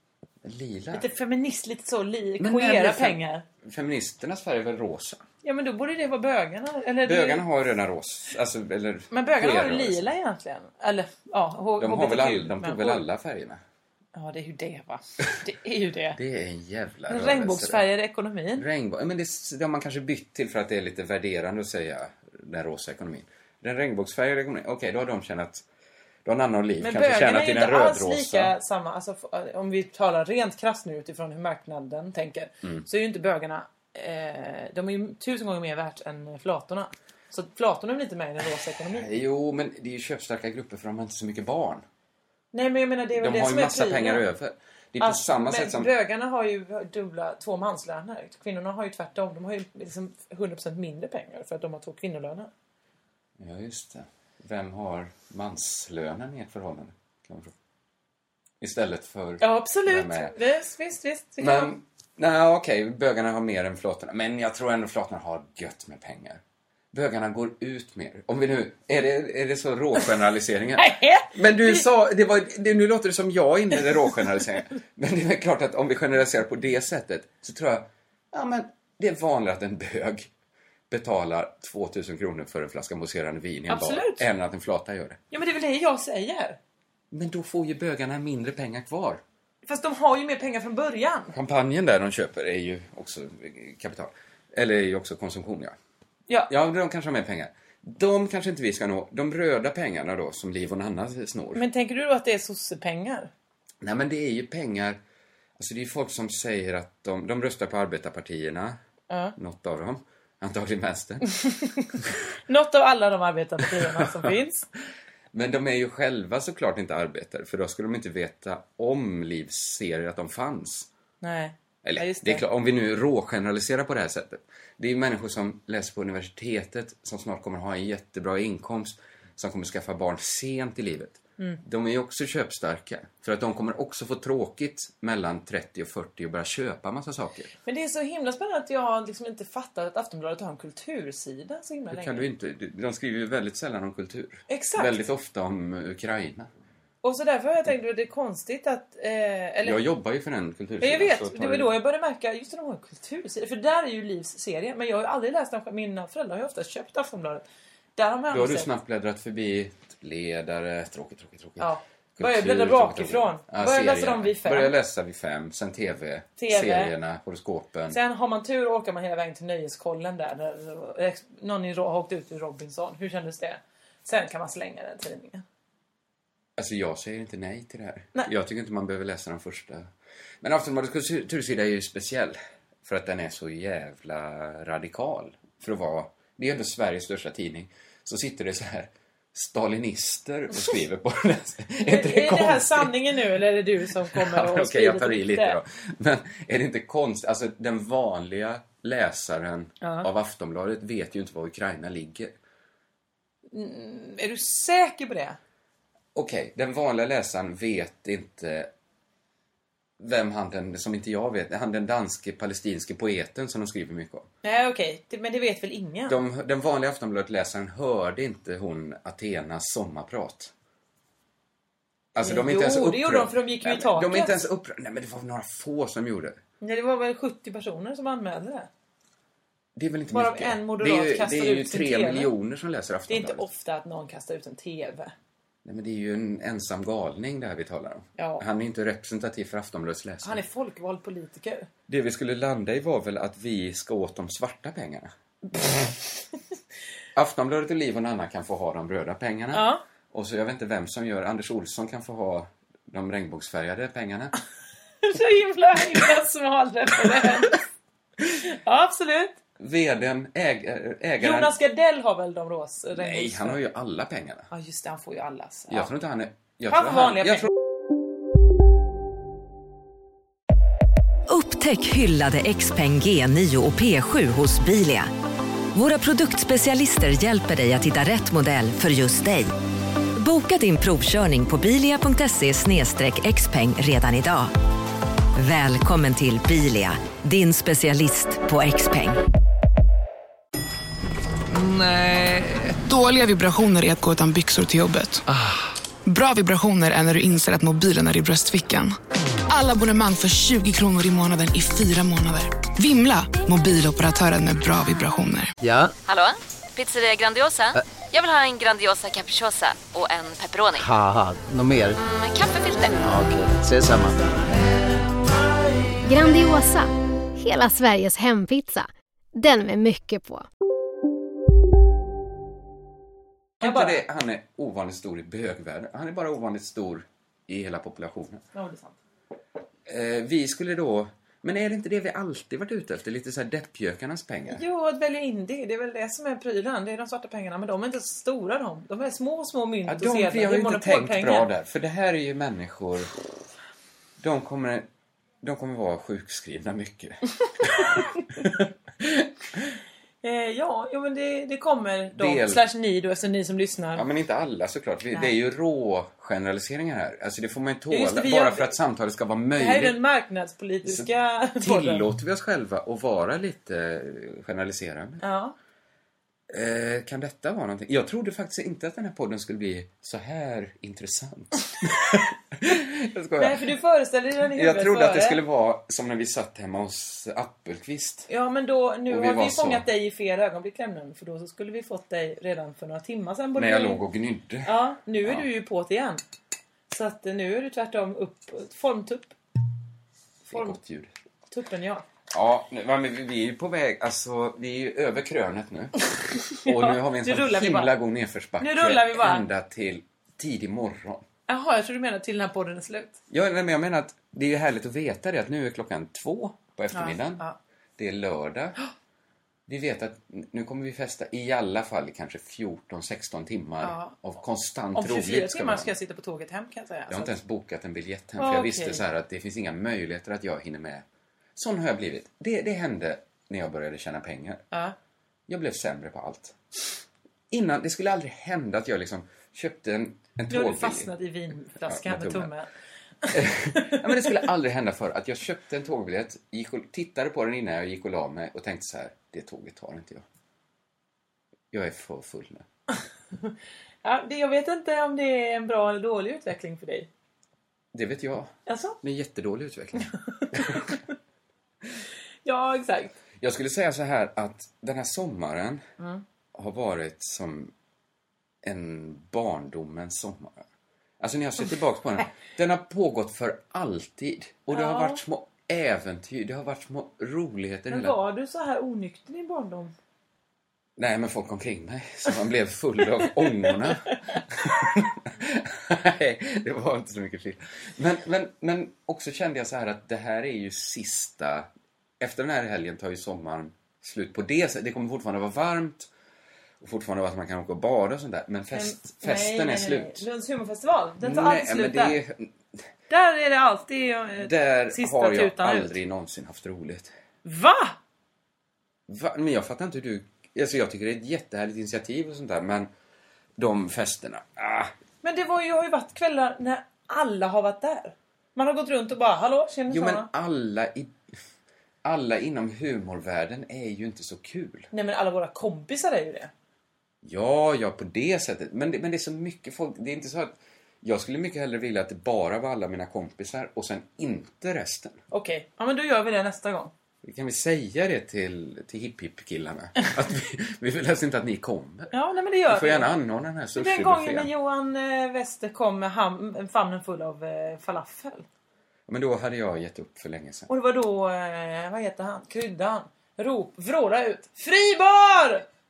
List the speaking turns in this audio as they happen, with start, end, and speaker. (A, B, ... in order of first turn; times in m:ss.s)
0:00.4-0:01.1 A
0:00.9-0:03.4 B
0:02.4-0:05.2 A
0:05.4-0:07.4 B
0:07.0-0:10.1 A
0:09.1-0:13.0 B
0:11.8-0:13.6 A
0:14.2-0:16.2 B
0:16.1-0:17.8 A
0:17.1-0:18.6 B
0:18.6-0:25.6 A
0:26.2-0:28.5 A
0:26.8-0:39.1 B
0:38.9-0:41.8 A
0:42.5-0:44.2 B
0:43.2-0:45.9 A
0:45.0-0:52.5 B
0:53.4-0:57.5 A
0:58.6-1:00.4 A
0:59.4-1:01.7 B
1:01.4-1:06.4 A
1:06.9-1:20.3 A
1:10.8-1:11.9 B
1:20.9-1:25.2 A
1:23.7-1:24.2 B
1:25.3-1:26.6 B
1:27.1-1:29.2 A
1:29.7-1:31.4 B
1:31.3-1:35.8 A
1:36.5-1:41.6 A
1:41.6-1:43.3 B
1:43.8-1:45.0 A
1:45.6-1:48.8 A
1:49.1-1:49.4 B
1:49.4-1:51.2 A
1:51.3-1:51.9 B
1:52.5-1:54.7 B
1:53.8-1:54.3 A
1:55.3-2:00.9 A
2:01.2-2:02.4 B
2:01.8-2:17.5 A
2:17.7-2:22.3 B
2:21.9-2:26.5 A
2:24.5-2:25.0 B
2:27.0-2:29.8 B
2:29.6-2:31.7 A
2:30.8-2:37.4 B
2:38.0-2:38.7 B
2:38.3-2:48.0 A
2:41.6-2:44.7 B
2:46.4-2:46.9 B
2:47.9-2:55.4 B
2:56.6-2:59.9 A
3:00.4-3:12.9 A
3:11.9-3:15.6 B
3:14.0-3:22.3 A
3:19.8-3:20.1 B
3:23.5-3:25.4 B
3:26.2-3:28.7 A
3:30.0-3:34.3 A
3:34.4-3:36.2 B
3:36.1-3:40.5 A
3:42.2-3:46.4 A
3:42.2-3:44.4 B
3:46.6-3:48.7 B
3:49.8-3:53.5 A
3:50.1-3:52.3 B
3:53.1-3:55.1 B
3:55.6-4:00.4 A
3:58.2-3:58.4 B
4:00.2-4:01.7 B
4:01.9-4:05.1 A
4:07.2-4:14.3 A
4:09.5-4:09.8 B
4:15.0-4:17.6 B
4:18.4-4:19.4 B
4:19.6-4:21.5 A
4:21.2-4:23.6 B
4:23.0-4:24.5 A
4:24.5-4:25.9 B
4:25.7-4:27.5 A
4:26.7-4:27.5 B
4:31.3-4:35.1 C
4:35.7-4:39.5 C
4:40.2-4:44.5 C
4:45.4-4:49.2 C
4:51.5-4:55.2 D
4:56.1-4:59.0 D
4:59.5-5:05.5 D
5:05.6-5:05.9 E
5:06.1-5:10.9 F
5:10.8-5:12.0 E
5:12.0-5:13.0 F
5:13.0-5:14.2 E
5:16.0-5:20.5 G
5:23.6-5:24.0 B
5:23.6-5:28.4 A
5:28.5-5:29.0 B
5:29.9-5:34.6 A
5:34.5-5:41.5 B
5:39.9-5:43.1 A
5:44.2-5:44.9 A
5:45.4-5:49.7 A
5:50.2-5:54.0 B
5:52.2-5:52.6 A
5:54.0-6:00.0 A
5:57.9-5:58.7 B
5:59.6-6:02.0 B
6:00.8-6:05.2 A
6:05.2-6:05.5 B
6:06.5-6:13.7 A
6:13.4-6:15.4 B
6:14.5-6:18.3 A
6:18.3-6:24.0 B
6:19.1-6:19.9 A
6:23.6-6:24.7 A
6:24.6-6:26.2 B
6:26.9-6:29.3 B
6:30.5-6:31.1 A
6:31.5-6:32.0 B
6:32.3-6:35.9 A
6:36.4-6:41.2 A
6:36.6-6:38.0 B
6:38.6-6:39.4 B
6:41.5-6:43.2 B
6:43.3-6:47.4 A
6:46.9-6:47.6 B
6:48.0-6:48.8 A
6:49.7-6:55.9 A
6:53.8-6:54.1 B
6:54.9-6:57.3 B
6:57.1-7:04.6 A
6:58.4-6:59.0 B
7:05.5-7:06.6 A
7:07.5-7:11.1 A
7:10.5-7:12.7 B
7:11.9-7:12.5 A
7:13.3-7:20.2 A
7:13.8-7:14.1 B
7:21.7-7:22.6 A
7:24.0-7:27.1 B
7:27.9-7:30.9 A
7:28.7-7:29.0 B
7:30.5-7:31.0 B
7:32.4-7:33.1 B
7:33.4-7:35.8 A
7:36.5-7:37.7 A
7:38.6-7:40.6 A
7:41.2-7:48.2 A
7:44.7-7:45.2 B
7:47.9-7:49.9 B
7:51.0-8:01.7 A
8:02.2-8:06.1 A
8:06.8-8:10.3 A
8:08.7-8:12.2 B
8:11.2-8:12.5 A
8:13.1-8:16.0 B
8:14.4-8:17.1 A
8:17.4-8:18.0 B
8:19.1-8:22.9 A
8:23.6-8:24.9 A
8:25.2-8:30.3 B
8:29.9-8:31.1 A
8:32.0-8:34.9 A
8:34.9-8:36.5 B
8:37.2-8:45.2 A
8:45.3-8:46.9 B
8:47.2-8:52.1 A
8:52.1-8:53.1 B
8:52.7-8:54.5 A
8:53.8-8:58.4 B
8:59.1-9:00.7 A
9:00.7-9:05.7 B